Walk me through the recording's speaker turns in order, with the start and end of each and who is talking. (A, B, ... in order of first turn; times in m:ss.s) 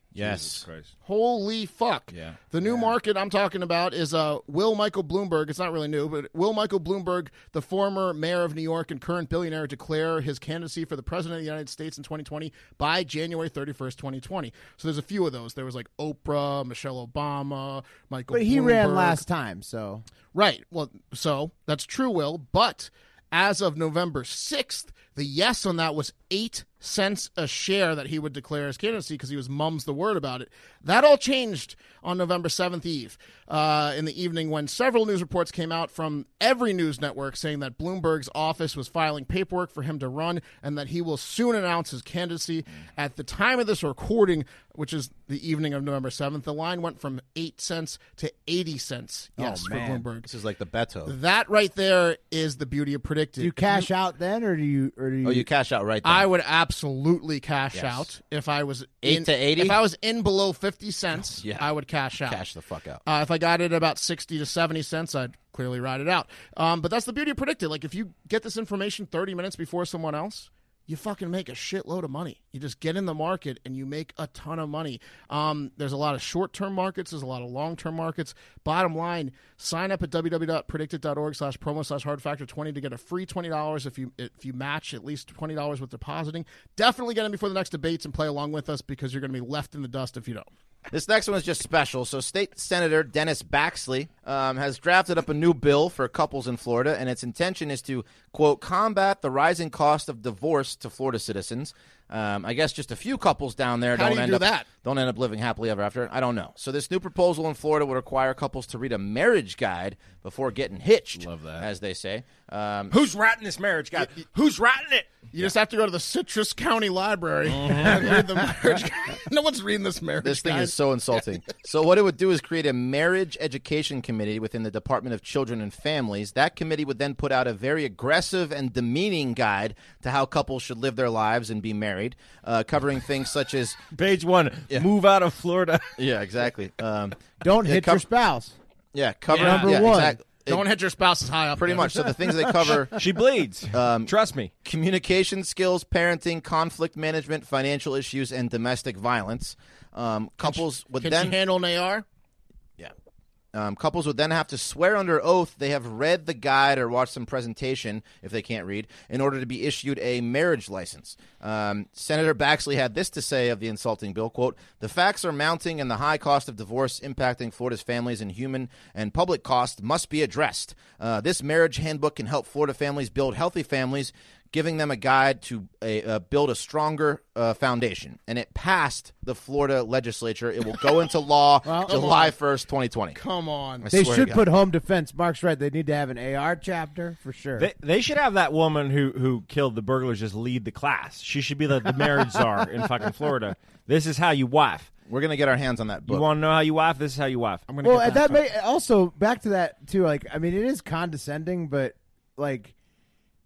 0:00.2-0:00.7 A
0:00.2-0:00.9 B
0:01.0-0:19.2 C
0:02.1-0:02.9 A
0:18.3-0:20.0 D
0:20.3-0:50.3 C
0:49.4-0:50.0 D
0:50.2-0:51.2 A
0:51.1-0:53.9 C
0:53.4-0:55.5 D
0:55.2-0:56.3 A
0:56.0-1:02.4 C
0:57.7-0:58.1 A
0:59.0-0:59.8 A
1:01.4-1:01.7 A
1:02.3-1:03.0 A
1:03.1-1:30.5 C
1:30.9-1:52.9 A
1:43.9-1:44.7 C
1:51.2-1:51.7 B
1:52.9-1:55.1 B
1:55.3-2:00.8 C
1:57.6-1:58.2 B
2:00.2-2:13.9 A
2:13.9-2:16.0 B
2:16.0-2:18.0 A
2:17.4-2:18.6 D
2:18.9-2:20.6 A
2:19.3-2:22.1 C
2:19.3-2:20.2 D
2:21.6-2:23.0 A
2:22.9-2:24.5 B
2:23.7-2:24.1 A
2:24.6-2:31.4 A
2:30.4-2:32.0 C
2:33.5-3:03.2 A
3:01.6-3:02.0 D
3:01.8-3:02.4 C
3:03.2-3:03.9 C
3:03.8-3:04.4 A
3:03.9-3:07.7 D
3:07.6-3:14.9 B
3:15.1-3:16.3 A
3:16.1-3:17.6 B
3:17.7-3:18.4 C
3:17.8-3:22.7 D